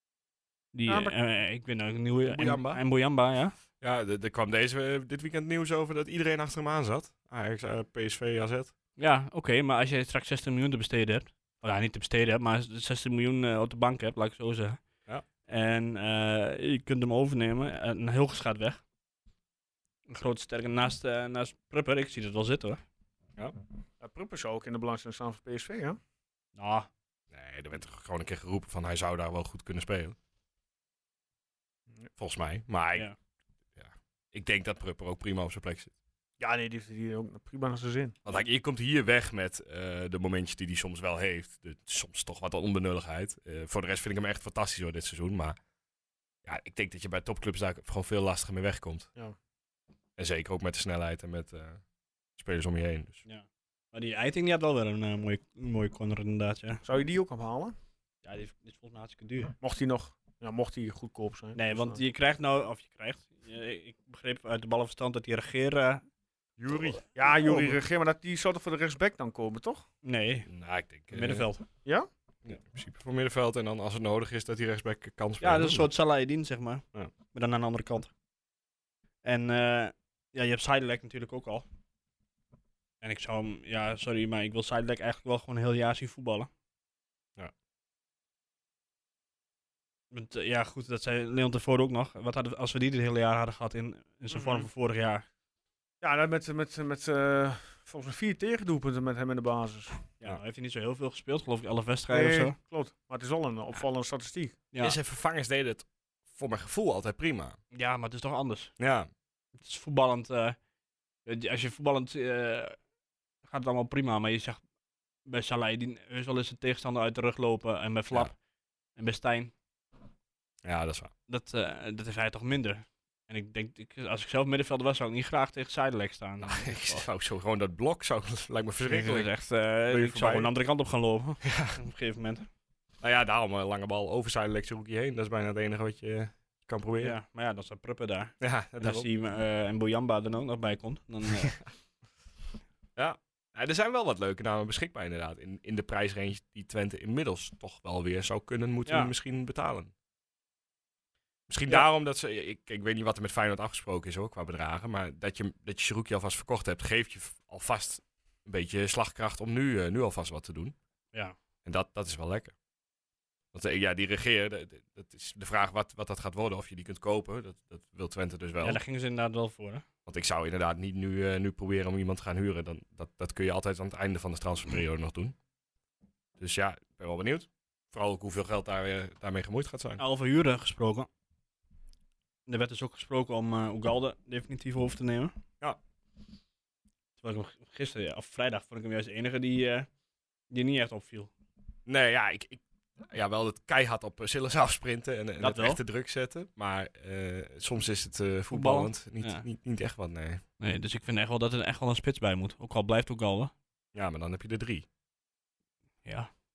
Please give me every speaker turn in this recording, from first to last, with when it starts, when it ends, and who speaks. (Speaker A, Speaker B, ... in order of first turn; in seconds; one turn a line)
Speaker A: 0.7-3.5
Speaker B: 0.9-1.1
Speaker C: 2.3-2.8
Speaker C: 3.8-8.7
Speaker A: 9.0-14.8
Speaker A: 15.4-18.8
Speaker A: 20.1-22.8
Speaker B: 24.0-26.0
Speaker A: 26.6-26.9
Speaker C: 27.3-30.2
Speaker C: 32.2-33.1
Speaker C: 33.8-35.9
Speaker B: 36.4-38.1
Speaker C: 38.2-45.6
Speaker C: 46.4-49.1
Speaker C: 50.2-51.8
Speaker C: 52.4-53.2
Speaker A: 53.2-56.8
Speaker B: 56.8-57.7
Speaker A: 58.2-59.5
Speaker B: 59.6-62.0
Speaker A: 61.5-66.0
Speaker C: 66.6-67.0
Speaker B: 67.1-69.8
Speaker A: 67.2-67.8
Speaker A: 70.0-70.5
Speaker C: 70.5-71.5
Speaker A: 71.1-71.7
Speaker C: 72.4-75.9
Speaker A: 75.4-78.1
Speaker A: 79.2-81.7
Speaker A: 83.0-86.5
Speaker A: 90.1-95.2
Speaker B: 94.3-94.7
Speaker B: 96.0-100.0
Speaker A: 100.2-102.5
Speaker B: 102.1-104.6
Speaker C: 104.8-107.6
Speaker A: 107.7-108.7
Speaker C: 108.8-109.1
Speaker A: 109.6-110.5
Speaker A: 111.2-112.8
Speaker A: 113.4-114.6
Speaker A: 115.2-118.3
Speaker A: 119.0-119.5
Speaker C: 120.6-121.1
Speaker A: 121.3-127.0
Speaker C: 126.4-129.3
Speaker A: 128.8-132.5
Speaker C: 129.9-130.5
Speaker C: 131.4-131.8
Speaker C: 133.0-137.2
Speaker A: 137.0-141.6
Speaker C: 138.4-139.1
Speaker C: 142.9-149.9
Speaker A: 148.8-149.1
Speaker C: 151.5-160.7
Speaker C: 161.6-162.5
Speaker C: 163.5-168.8
Speaker A: 168.6-169.8
Speaker C: 170.1-175.3
Speaker C: 176.4-180.0
Speaker A: 180.0-181.1
Speaker A: 182.5-185.3
Speaker A: 187.2-189.9
Speaker A: 190.5-191.3
Speaker C: 191.8-200.4
Speaker A: 195.4-195.8
Speaker A: 198.5-199.4
Speaker A: 200.6-203.5
Speaker C: 203.9-204.8
Speaker A: 206.0-206.3